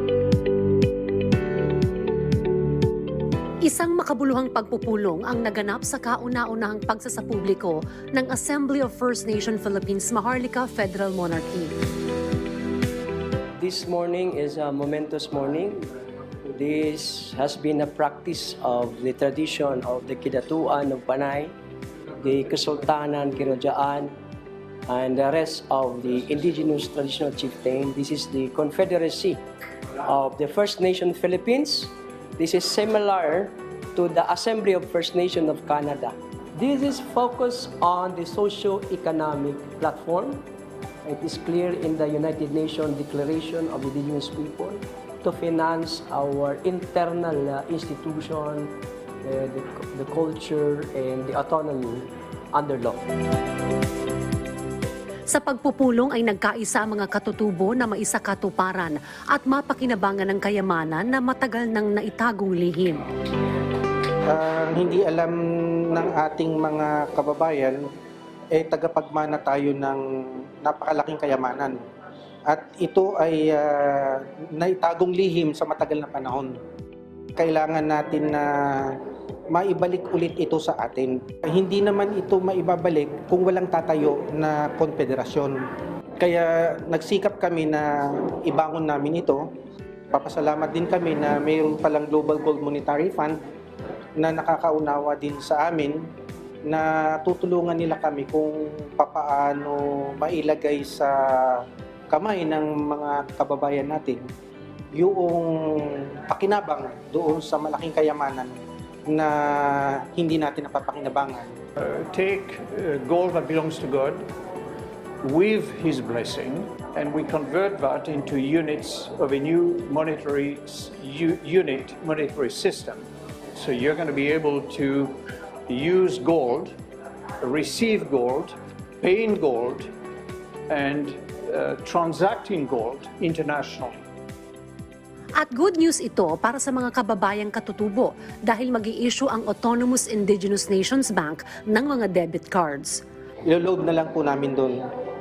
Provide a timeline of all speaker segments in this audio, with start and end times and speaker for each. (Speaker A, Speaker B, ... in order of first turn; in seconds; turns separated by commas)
Speaker A: 3.7-11.7, Speaker B: 13.6-15.9, Speaker B: 16.5-21.6, Speaker B: 22.2-24.1, Speaker B: 24.9-29.4, Speaker B: 30.0-40.4, Speaker B: 41.0-48.7, Speaker B: 49.2-53.1, Speaker A: 55.3-63.0, Speaker C: 64.3-67.8, Speaker C: 68.5-71.8, Speaker C: 72.5-76.6, Speaker C: 77.4-79.0, Speaker C: 79.5-85.6, Speaker C: 86.2-89.5, Speaker C: 90.1-93.4, Speaker C: 94.2-96.0, Speaker C: 96.7-104.3, Speaker C: 105.0-108.5, Speaker C: 109.1-111.6, Speaker D: 111.8-114.2, Speaker D: 115.2-123.0, Speaker D: 123.6-125.2, Speaker D: 125.7-126.8, Speaker D: 127.4-129.9, Speaker D: 130.7-134.0, Speaker A: 135.4-143.0, Speaker C: 143.4-144.8